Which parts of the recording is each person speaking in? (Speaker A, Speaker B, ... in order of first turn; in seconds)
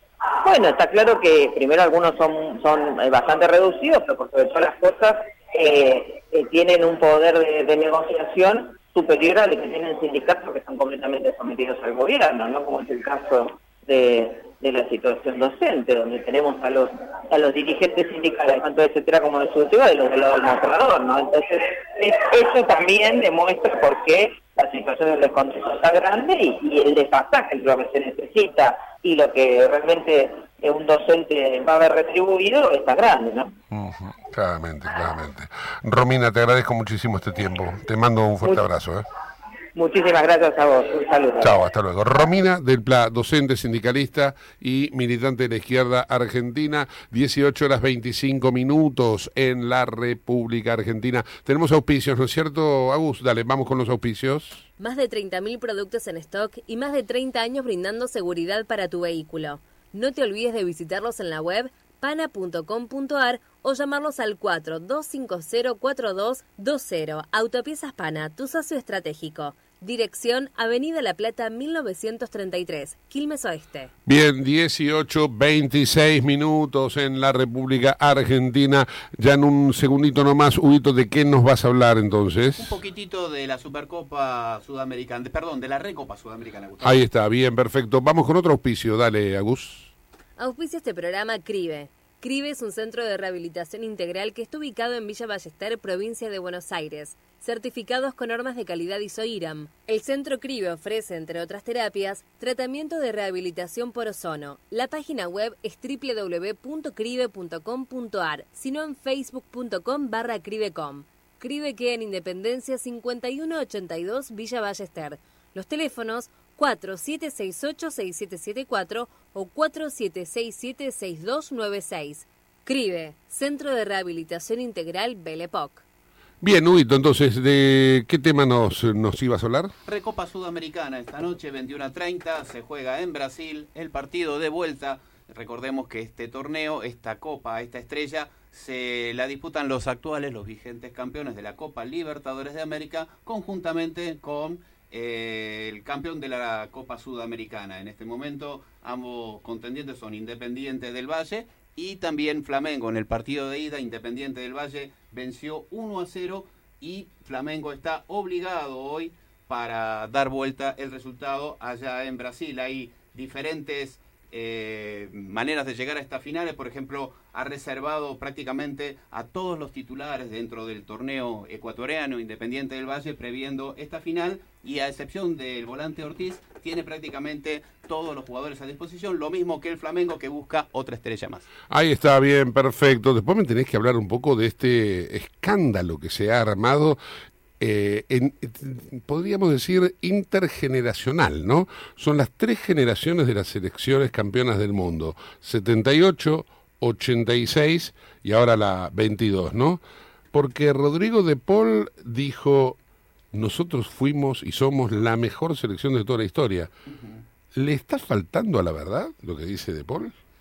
Speaker A: 0.4-33.5, 39.7-41.6
Speaker B: 33.7-39.0, 41.4-54.7, 74.0-82.7, 86.8-89.9, 126.4-129.7, 181.7-187.0, 187.6-199.8, 200.3-202.8, 203.3-206.7, 207.5-210.1
Speaker C: 54.8-73.9, 90.4-125.8
Speaker D: 82.5-87.0, 129.8-181.4, 206.9-207.2